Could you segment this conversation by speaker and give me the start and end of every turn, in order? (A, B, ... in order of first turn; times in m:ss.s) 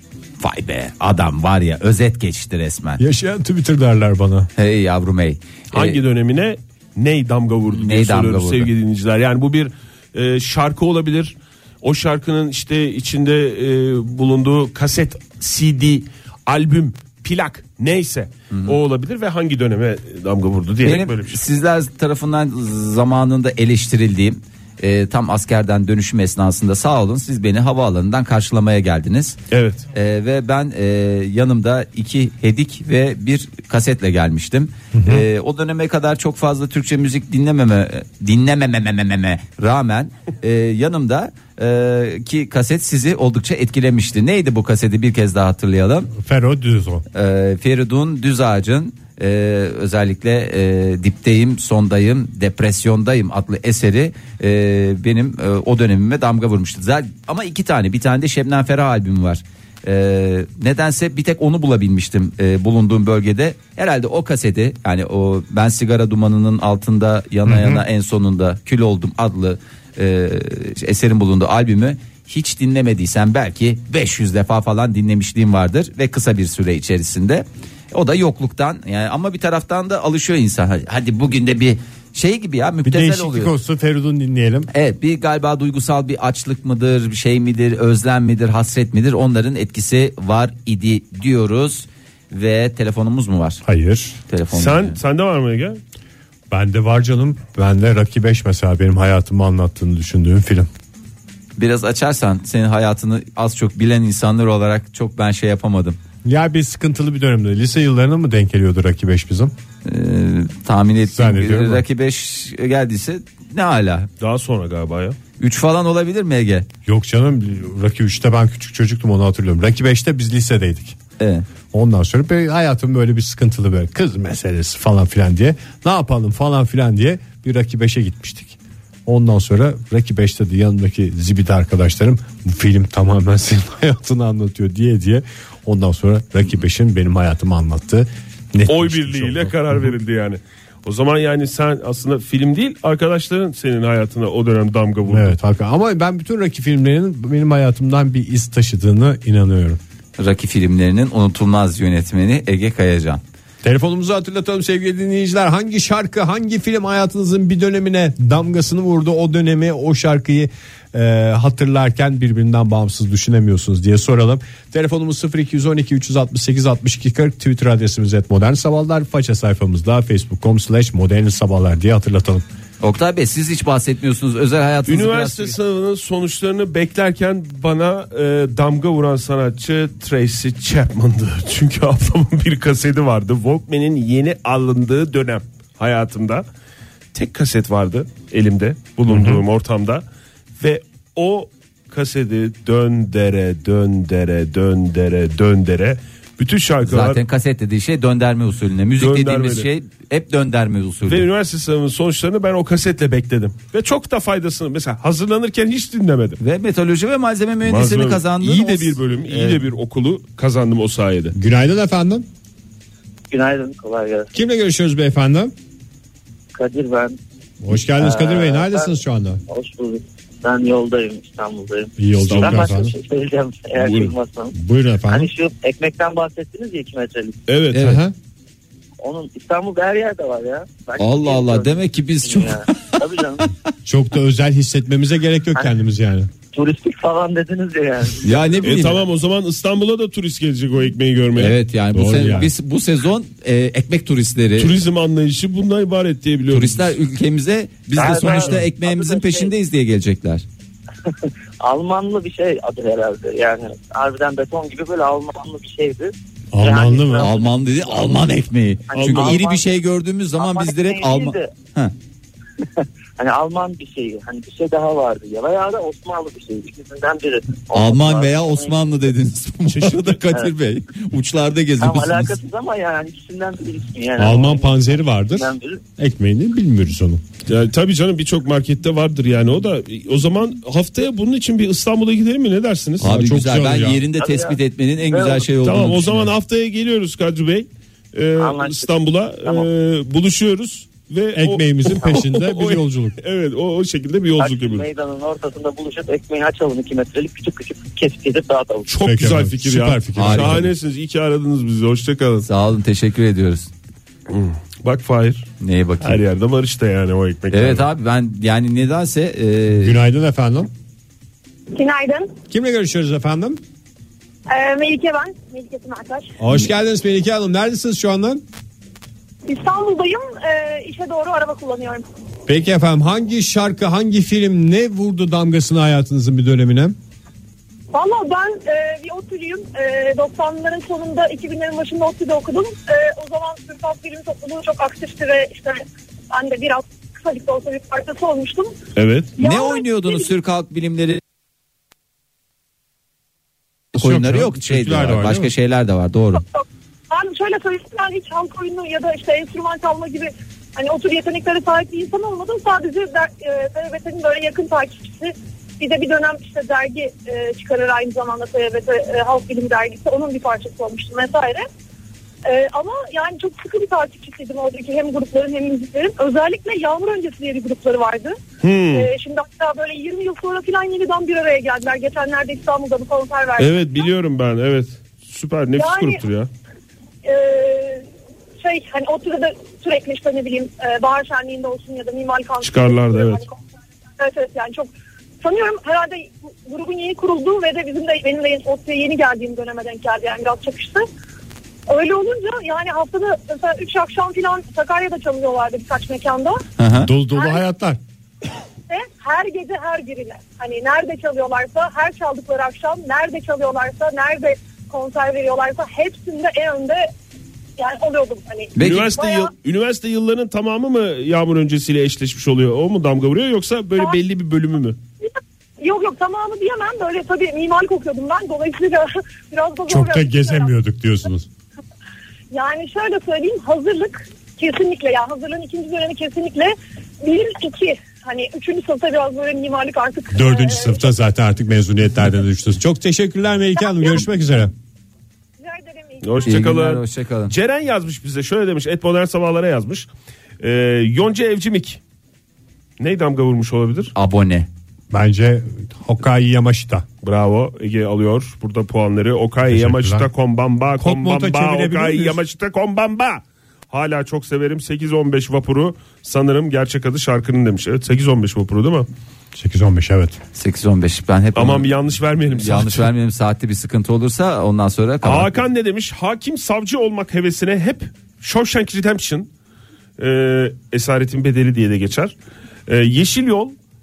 0:00.4-0:03.0 A
0:03.0-0:04.5 B
0:04.6-0:06.0 A
0:05.7-0:21.4 C
0:07.7-0:08.7 A
0:18.5-0:18.8 A
0:20.8-0:29.4 A
0:29.5-0:29.9 C
0:29.9-0:46.1 A
0:34.9-0:35.2 B
0:46.1-0:47.0 B
0:47.1-1:23.5 A
1:07.5-1:07.8 B
1:22.8-1:24.7 B
1:24.7-1:33.6 A
1:33.6-1:34.2 B
1:34.3-1:35.0 A
1:34.5-1:35.8 C
1:36.5-1:40.7 B
1:41.6-1:46.0 A
1:46.2-1:49.5 B
1:49.8-1:54.1 A
1:51.1-1:51.8 B
1:54.2-1:55.2 C
1:55.4-1:56.7 A
1:56.9-2:01.0 B
2:01.2-2:01.5 A
2:01.7-2:19.6 B
2:18.7-2:25.4 C
2:25.1-2:29.8 B
2:30.2-2:33.2 A
2:33.6-2:52.4 B
2:52.8-2:55.6 A
2:54.9-3:06.4 C
3:07.1-3:10.0 C
3:09.1-3:09.4 B
3:10.6-3:17.2 C
3:16.8-3:21.3 A
3:19.0-3:19.7 C
3:21.1-3:26.4 C
3:26.4-3:29.6 A
3:27.6-3:31.3 C
3:31.3-3:32.3 B
3:33.3-3:34.3 D
3:34.3-3:35.5 B
3:36.5-3:37.2 D
3:37.6-3:39.4 B
3:38.0-3:38.9 D
3:39.5-3:44.6 D
3:42.0-3:42.9 B
3:42.2-3:42.7 C
3:43.8-3:44.1 C
3:44.5-3:45.3 B
3:45.1-3:47.4 D
3:47.5-3:48.0 C
3:47.7-3:48.0 A
3:47.8-3:48.1 B
3:49.0-3:53.5 D
3:51.0-3:52.6 A
3:53.8-3:56.3 B
3:56.5-3:58.8 D
3:58.2-3:59.0 A
3:58.6-4:01.6 C
4:01.4-4:04.8 A
4:01.9-4:02.5 B
4:04.6-4:07.0 C
4:06.5-4:10.4 A
4:08.0-4:09.5 D
4:08.0-4:08.6 C
4:11.0-4:18.1 D
4:16.5-4:17.3 B
4:17.2-4:21.9 A
4:18.9-4:19.7 D
4:18.9-4:19.4 C
4:20.4-4:21.5 D
4:22.6-4:28.9 D
4:27.7-4:32.4 A
4:29.7-4:30.2 C
4:31.8-4:35.8 D
4:34.2-4:37.2 B
4:37.5-4:43.1 C
4:43.0-4:44.0 B
4:43.0-4:46.3 A
4:44.1-4:45.4 D
4:45.6-4:54.9 C
4:48.4-4:48.9 D
4:51.3-4:53.2 B
4:54.4-4:58.9 D
4:58.9-5:02.5 C
4:59.0-5:00.7 B
5:00.2-5:00.7 A
5:02.4-5:03.7 A
5:04.3-5:05.5 C
5:05.6-5:06.2 A
5:06.0-5:07.9 C
5:07.5-5:10.0 A
5:09.8-5:10.7 B
5:11.7-5:12.3 E
5:12.5-5:13.6 B
5:14.5-5:16.3 E
5:16.4-5:18.4 B
5:19.5-5:22.0 E
5:22.5-5:27.0 B
5:27.9-5:38.7 E
5:39.0-5:39.3 C
5:39.4-5:40.3 E
5:39.4-5:41.2 A
5:43.9-5:45.5 B
5:44.0-5:46.4 A
5:46.4-6:01.7 E
6:02.4-6:08.4 E
6:08.6-6:09.1 C
6:08.9-6:14.1 E
6:13.6-6:16.5 C
6:15.8-6:16.2 E
6:17.2-6:18.1 E
6:18.6-6:23.6 E
6:22.6-6:23.4 C
6:24.2-6:31.0 E
6:31.9-6:36.6 E
6:36.8-6:37.1 A
6:37.0-6:38.0 B
6:37.4-6:37.6 E
6:38.9-6:47.0 E
6:47.8-6:49.5 E
6:48.8-6:49.1 A
6:48.8-6:55.0 C
6:55.8-7:00.7 E
6:59.9-7:01.5 B
7:02.5-7:11.0 E
7:10.3-7:14.7 B
7:15.6-7:16.7 E
7:16.2-7:20.1 C
7:16.4-7:17.5 A
7:20.6-7:22.0 C
7:23.0-7:24.1 C
7:24.2-7:24.7 A
7:25.1-7:27.1 B
7:27.2-7:39.1 C
7:29.7-7:30.3 B
7:31.0-7:32.4 B
7:39.6-7:40.4 B
7:40.6-7:41.9 A
7:41.6-7:43.1 C
7:42.5-7:45.6 A
7:45.2-7:49.5 C
7:50.2-7:52.4 C
7:52.9-7:53.8 C